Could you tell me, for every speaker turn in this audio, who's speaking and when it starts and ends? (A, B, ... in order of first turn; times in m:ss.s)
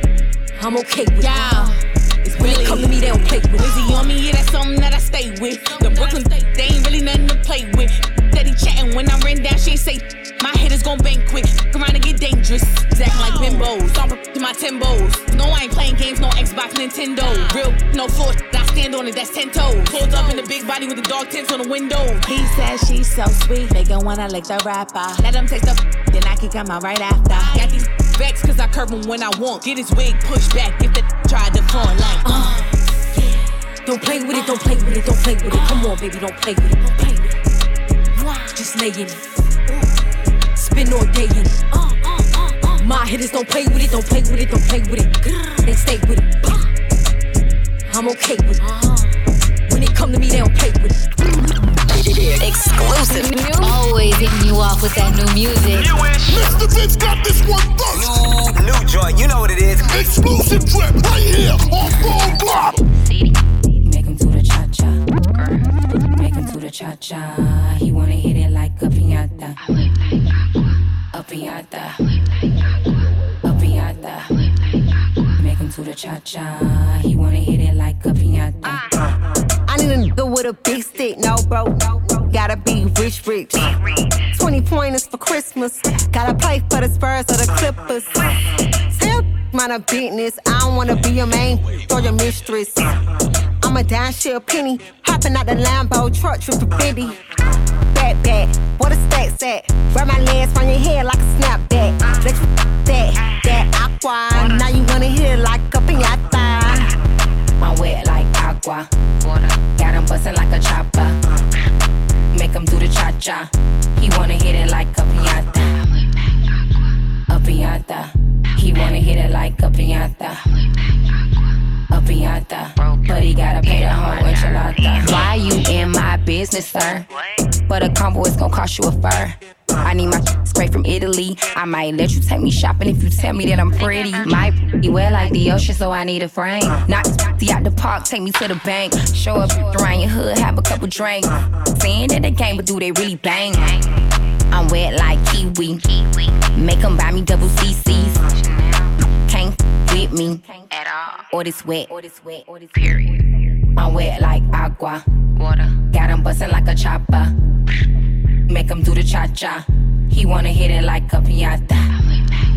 0:00.6-0:01.7 A
0:01.2-0:32.5 B
0:02.3-0:03.9 A
0:32.2-0:32.6 A
0:33.8-0:37.2 A
0:38.6-0:39.2 A
0:40.6-0:41.6 A
0:42.8-0:46.7 A
0:47.9-0:48.7 A
0:49.7-0:51.0 A
0:52.4-0:55.9 C
0:55.7-0:56.4 D
0:56.2-0:58.2 E
0:58.0-0:59.8 D
0:59.8-1:02.8 E
1:01.7-1:03.3 F
1:03.8-1:09.6 F
1:11.1-1:12.0 F
1:13.4-1:14.3 F
1:15.4-1:18.8 F
1:19.7-1:28.1 G
1:28.9-1:32.8 G
1:33.6-1:37.2 G
1:37.9-1:46.9 G
1:47.6-1:48.9 F
1:49.6-1:51.2 F
1:52.3-1:55.7 F
1:57.3-2:00.4 F
2:01.9-2:07.0 F
2:07.7-2:23.8 F
2:24.5-2:28.3 F
2:29.3-2:33.2 F
2:33.8-2:35.0 F
2:35.8-2:37.3 F
2:38.5-2:41.9 F